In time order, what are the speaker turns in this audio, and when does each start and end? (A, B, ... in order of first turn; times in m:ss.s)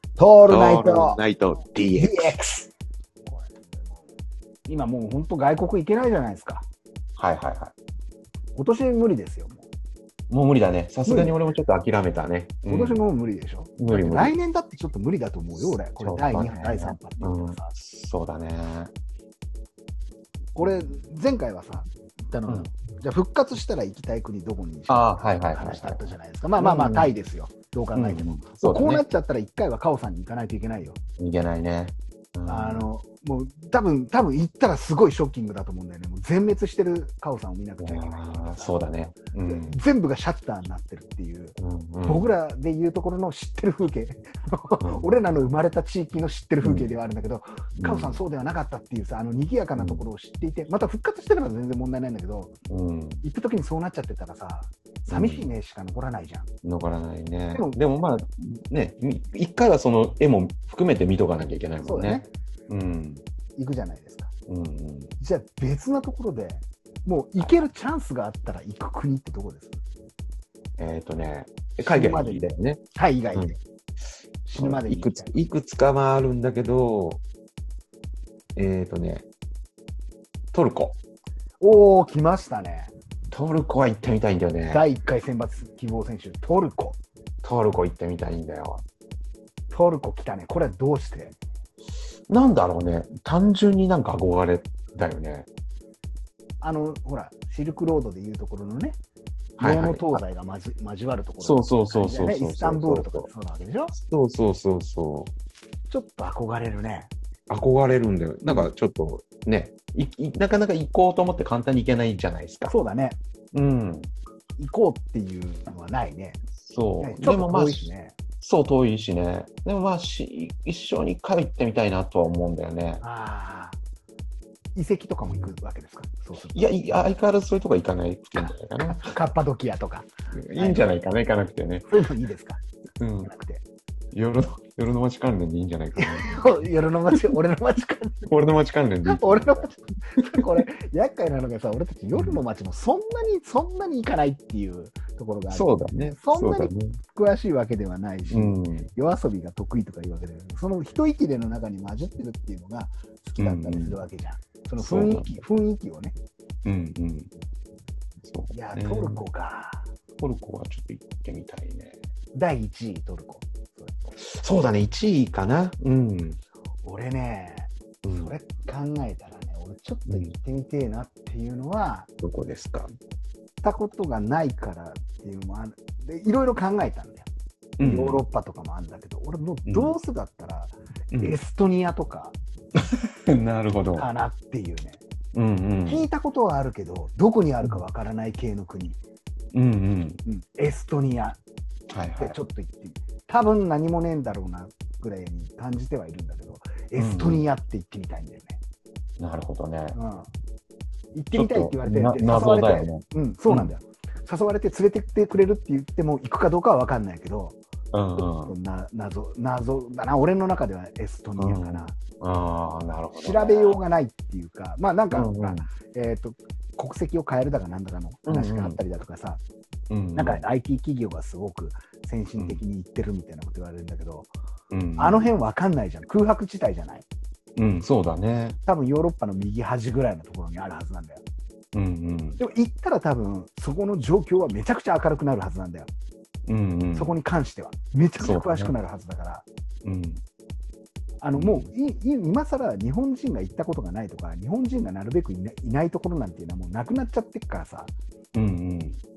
0:00.2-0:01.2 A
0:00.5-0:02.3 B
0:01.9-0:02.7 A
0:03.2-0:04.0 A
0:04.7-0:06.6 A
0:07.2-0:07.7 B
0:08.6-0:09.7 A
0:10.3-0:13.0 B
0:11.0-0:11.4 A
0:12.7-0:17.7 A
0:13.8-0:14.4 B
0:15.7-0:18.9 B
0:20.5-0:31.0 A
0:24.9-0:26.0 B
0:26.6-0:27.1 B
0:27.9-0:29.0 B
0:31.2-0:32.9 B
0:32.4-0:38.7 A
0:37.8-0:39.8 B
0:39.4-0:52.5 A
0:41.6-0:42.3 B
0:44.8-0:45.2 B
0:46.6-0:46.9 B
0:47.8-0:48.2 B
0:49.8-0:50.1 B
0:52.7-0:53.2 B
0:53.2-0:56.5 A
0:55.1-0:55.4 B
0:56.6-1:03.2 B
0:57.5-0:58.1 A
1:01.8-1:02.3 A
1:03.6-1:04.3 A
1:04.5-1:05.1 B
1:05.2-1:09.8 A
1:10.8-1:12.8 B
1:11.8-1:13.6 A
1:14.4-1:15.3 A
1:14.6-1:17.2 B
1:18.5-1:19.3 B
1:20.5-1:21.0 B
1:21.6-1:22.9 A
1:23.3-1:24.8 B
1:24.7-1:27.0 A
1:27.4-1:28.8 B
1:29.7-1:31.4 A
1:32.3-1:35.5 B
1:36.6-1:39.0 A
1:39.6-1:40.2 B
1:39.6-1:43.9 A
1:41.4-1:43.3 B
1:44.0-1:45.3 B
1:45.9-1:47.1 A
1:47.5-1:52.7 B
1:52.7-1:53.2 A
1:53.5-1:54.1 B
1:54.6-1:56.4 A
1:56.6-1:57.9 B
1:57.0-1:58.1 A
1:58.4-2:03.0 B
2:03.0-2:03.8 A
2:04.7-2:06.7 A
2:06.5-2:09.2 B
2:08.4-2:10.9 A
2:10.3-2:11.9 B
2:11.9-2:12.6 A
2:13.0-2:13.3 B
2:13.2-2:13.6 A
2:14.1-2:16.5 B
2:16.0-2:18.3 A
2:18.2-2:20.4 B
2:19.0-2:36.2 A
2:22.1-2:22.4 B
2:25.5-2:27.0 B
2:28.3-2:28.9 B
2:33.4-2:34.0 B
2:34.8-2:35.4 B
2:36.6-2:37.3 B
2:38.2-2:39.2 B
2:38.5-2:39.9 A
2:40.2-2:42.0 B
2:42.3-2:43.9 A
2:44.2-2:46.4 B
2:46.8-2:52.1 A
2:48.0-2:48.3 B
2:50.1-2:50.3 B
2:52.2-2:52.9 B
2:53.6-2:57.3 A
2:57.8-2:58.2 B
2:57.8-3:02.4 A
2:59.6-2:59.9 B
3:01.1-3:01.4 B
3:02.7-3:04.1 B
3:03.9-3:05.0 A
3:05.3-3:06.1 B
3:05.8-3:09.0 A
3:09.5-3:10.2 B
3:10.2-3:11.4 A
3:11.9-3:12.4 B
3:12.2-3:18.6 A
3:16.9-3:17.4 B
3:19.2-3:20.0 B
3:19.9-3:20.3 A
3:21.1-3:27.6 A
3:21.3-3:23.7 B
3:27.9-3:28.6 B
3:28.2-3:32.0 A
3:31.4-3:33.8 B
3:33.1-3:39.4 A
3:35.1-3:35.7 B
3:38.2-3:38.8 B
3:39.9-3:40.5 B
3:40.1-3:44.3 A
3:44.7-3:45.3 B
3:45.0-3:47.0 A
3:47.6-3:48.6 B
3:48.6-3:51.2 A
3:51.7-3:52.4 B
3:52.4-3:55.9 A
3:56.5-3:57.2 B
3:56.9-3:59.4 A
3:58.2-3:58.7 B
3:59.8-4:00.2 B
4:01.2-4:07.9 A
4:01.3-4:01.7 B
4:08.3-4:09.0 B